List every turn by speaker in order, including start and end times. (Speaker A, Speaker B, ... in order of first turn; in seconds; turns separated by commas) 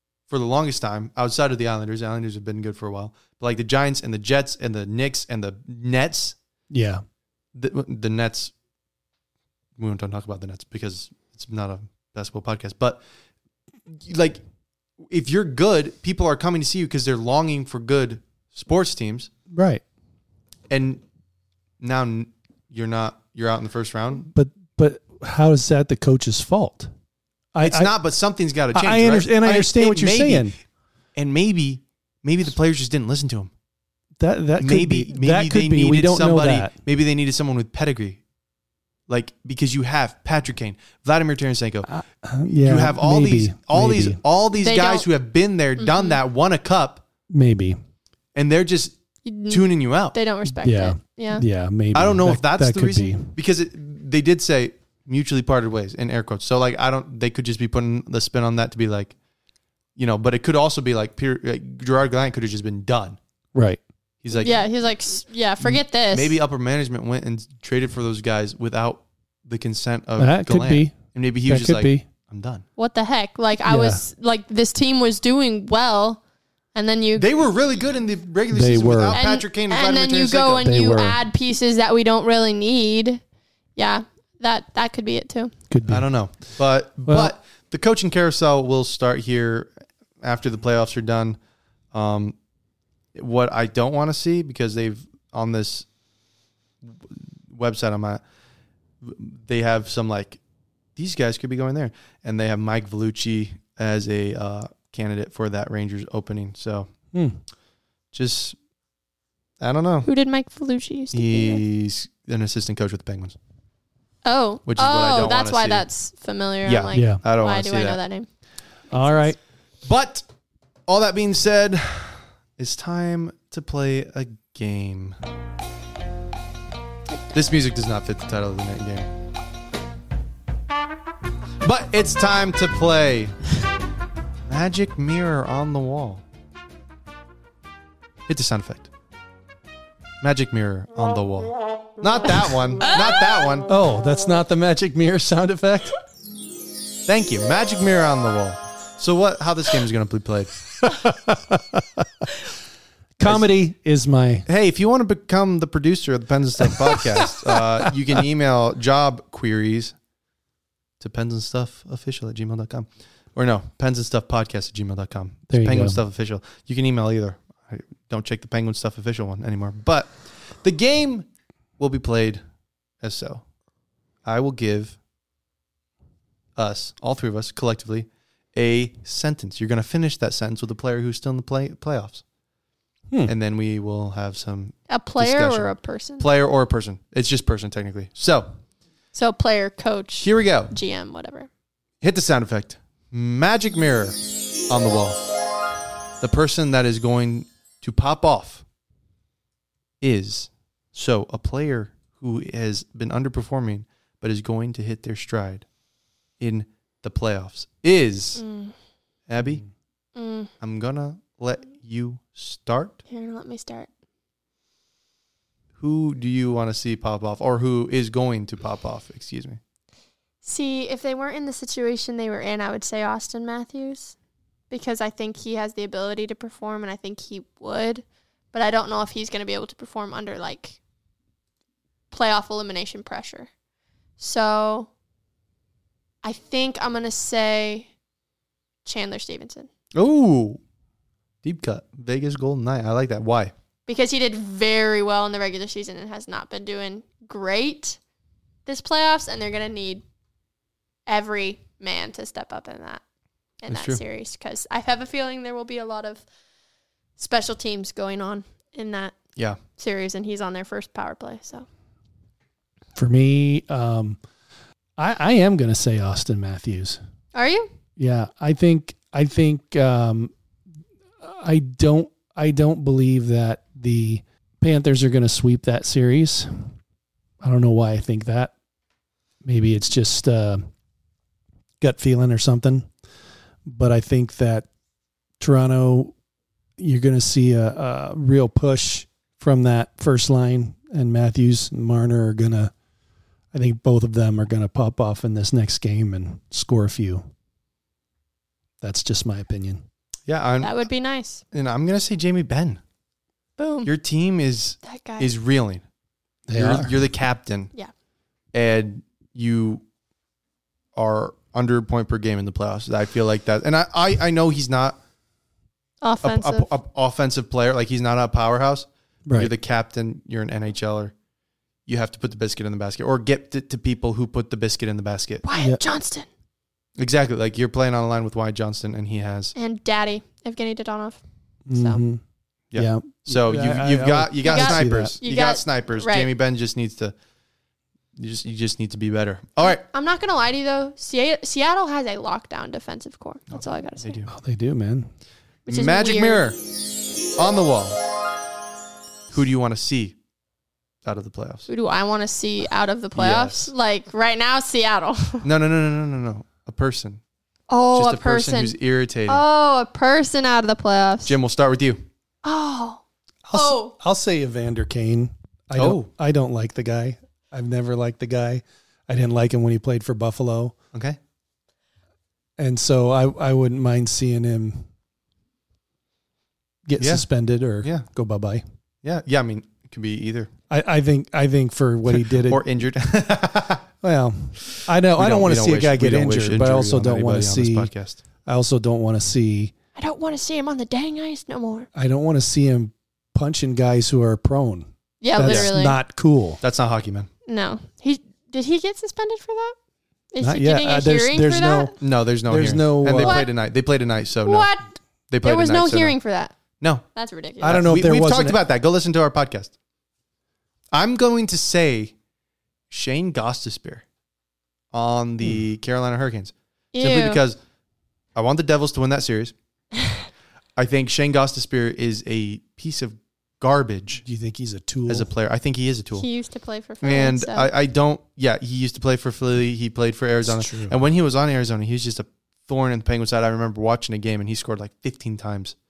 Speaker A: 0.3-6.4, Speaker B: 6.7-7.0, Speaker A: 7.5-8.5, Speaker A: 9.8-13.0, Speaker A: 13.9-14.4, Speaker A: 15.0-19.3, Speaker B: 19.5-19.8, Speaker A: 20.7-21.0, Speaker A: 21.8-24.3, Speaker B: 24.3-26.9, Speaker B: 27.5-27.9, Speaker A: 27.6-30.5, Speaker B: 28.7-30.6, Speaker A: 31.2-33.5, Speaker B: 34.2-36.7, Speaker A: 34.6-38.2, Speaker A: 39.1-41.9, Speaker B: 41.9-44.2, Speaker A: 42.6-47.0, Speaker C: 44.6-45.1, Speaker C: 45.8-46.2, Speaker B: 47.3-47.8, Speaker A: 48.4-49.0, Speaker C: 49.2-51.4, Speaker A: 49.5-50.2, Speaker B: 50.5-53.4, Speaker A: 51.9-59.1, Speaker A: 60.0-63.2, Speaker B: 63.5-63.8, Speaker A: 64.2-64.6, Speaker C: 64.3-66.4, Speaker A: 65.7-72.7, Speaker B: 70.2-72.1, Speaker C: 72.8-76.2, Speaker B: 73.7-74.0, Speaker C: 76.8-77.3, Speaker A: 77.2-80.7, Speaker B: 78.5-79.2, Speaker C: 79.1-83.2, Speaker B: 80.6-81.2, Speaker C: 83.8-85.5, Speaker B: 85.7-86.1, Speaker A: 85.9-91.4, Speaker B: 87.1-87.3, Speaker A: 91.9-92.4, Speaker A: 93.2-95.9, Speaker A: 96.8-98.2, Speaker A: 99.0-100.4, Speaker A: 101.0-106.9, Speaker B: 107.1-107.4, Speaker A: 108.1-108.6, Speaker A: 109.6-110.1, Speaker C: 110.1-111.6, Speaker A: 111.1-113.4, Speaker C: 114.2-118.3, Speaker A: 114.7-115.9, Speaker A: 116.7-118.0, Speaker B: 116.9-117.2, Speaker B: 118.9-119.4, Speaker A: 119.8-120.2, Speaker A: 120.9-125.2, Speaker A: 127.3-129.1, Speaker A: 131.6-133.3, Speaker A: 134.5-136.2, Speaker A: 138.3-138.9, Speaker A: 140.2-143.7, Speaker C: 142.9-143.3, Speaker B: 143.7-146.0, Speaker A: 147.1-150.6, Speaker B: 150.8-152.3, Speaker B: 153.2-154.5, Speaker A: 154.5-159.9, Speaker B: 156.7-157.6, Speaker A: 161.0-171.3, Speaker B: 165.5-166.0, Speaker A: 171.8-172.4, Speaker A: 173.0-173.4, Speaker A: 174.2-175.0, Speaker A: 176.6-182.2, Speaker A: 183.3-188.5, Speaker C: 184.9-186.3, Speaker C: 189.1-191.5, Speaker A: 190.2-190.7, Speaker A: 192.0-195.2, Speaker A: 196.2-198.6, Speaker A: 200.0-205.7, Speaker A: 206.4-208.4, Speaker C: 208.4-208.7, Speaker A: 209.3-209.6, Speaker C: 210.2-210.5, Speaker A: 210.6-213.0, Speaker C: 213.1-213.9, Speaker A: 215.8-219.6, Speaker C: 220.4-224.2, Speaker C: 224.7-230.8, Speaker C: 232.1-233.5, Speaker C: 234.2-234.9, Speaker C: 236.2-237.9, Speaker C: 238.8-239.7, Speaker A: 240.0-240.6, Speaker A: 241.4-243.5, Speaker C: 243.9-248.0, Speaker C: 248.7-250.0, Speaker C: 251.1-253.0, Speaker C: 253.6-256.2, Speaker A: 253.7-254.0, Speaker C: 257.2-259.1, Speaker C: 259.8-261.7, Speaker B: 263.0-264.2, Speaker B: 265.0-267.0, Speaker C: 267.3-267.7, Speaker B: 268.0-270.3, Speaker B: 271.2-276.7, Speaker B: 277.4-278.5, Speaker B: 279.4-280.7, Speaker B: 281.8-282.9, Speaker B: 283.7-284.7, Speaker B: 285.4-286.1, Speaker B: 286.8-292.7, Speaker B: 293.5-297.3, Speaker B: 298.8-299.8, Speaker A: 300.3-300.8, Speaker C: 300.6-301.4, Speaker A: 301.5-302.8, Speaker C: 303.6-303.9, Speaker A: 303.9-305.8, Speaker C: 304.9-305.3, Speaker B: 306.5-306.9, Speaker A: 306.6-307.7, Speaker A: 308.5-309.8, Speaker A: 310.9-315.0, Speaker C: 316.0-316.7, Speaker A: 316.2-321.1, Speaker B: 319.3-319.5, Speaker A: 321.9-325.4, Speaker C: 325.4-326.3, Speaker B: 325.6-325.8, Speaker A: 327.0-329.6, Speaker C: 329.6-331.2, Speaker B: 331.7-332.2, Speaker C: 331.8-332.0, Speaker A: 332.7-337.1, Speaker B: 332.8-335.1, Speaker C: 334.4-336.3, Speaker A: 338.2-339.8, Speaker C: 339.6-344.2, Speaker A: 343.5-344.3, Speaker B: 344.3-345.1, Speaker C: 345.7-346.5, Speaker A: 345.7-346.6, Speaker A: 347.4-348.0, Speaker A: 349.3-350.2, Speaker A: 351.1-351.7, Speaker C: 351.7-355.5, Speaker A: 353.1-353.7, Speaker A: 355.4-357.2, Speaker C: 357.7-358.8, Speaker A: 357.9-359.4, Speaker C: 359.3-361.4, Speaker A: 361.2-362.0, Speaker C: 362.4-363.0, Speaker B: 363.5-370.8, Speaker C: 363.5-363.9, Speaker A: 365.8-366.1, Speaker A: 370.9-371.2, Speaker B: 372.6-374.9, Speaker B: 376.9-378.6, Speaker A: 377.0-377.2, Speaker A: 379.0-380.5, Speaker B: 380.7-382.6, Speaker A: 382.1-383.9, Speaker B: 384.0-387.9, Speaker A: 385.2-388.2, Speaker B: 388.4-389.7, Speaker C: 390.0-391.9, Speaker B: 391.9-396.6, Speaker C: 395.2-396.0, Speaker A: 395.4-395.7, Speaker A: 396.6-397.3, Speaker C: 397.5-399.8, Speaker C: 400.3-401.9, Speaker B: 400.4-401.9, Speaker A: 402.0-404.7, Speaker B: 402.5-403.4, Speaker C: 403.2-403.5, Speaker C: 404.4-404.9, Speaker A: 405.3-406.1, Speaker C: 405.4-406.6, Speaker C: 407.1-407.9, Speaker B: 407.6-408.6, Speaker A: 407.6-409.7, Speaker A: 410.9-412.1, Speaker A: 412.9-414.1, Speaker A: 414.9-417.6, Speaker C: 416.9-417.4, Speaker A: 418.4-419.5, Speaker A: 420.8-424.2, Speaker B: 424.2-425.3, Speaker A: 425.1-426.3, Speaker C: 426.2-427.7, Speaker A: 427.0-435.8, Speaker B: 430.4-430.9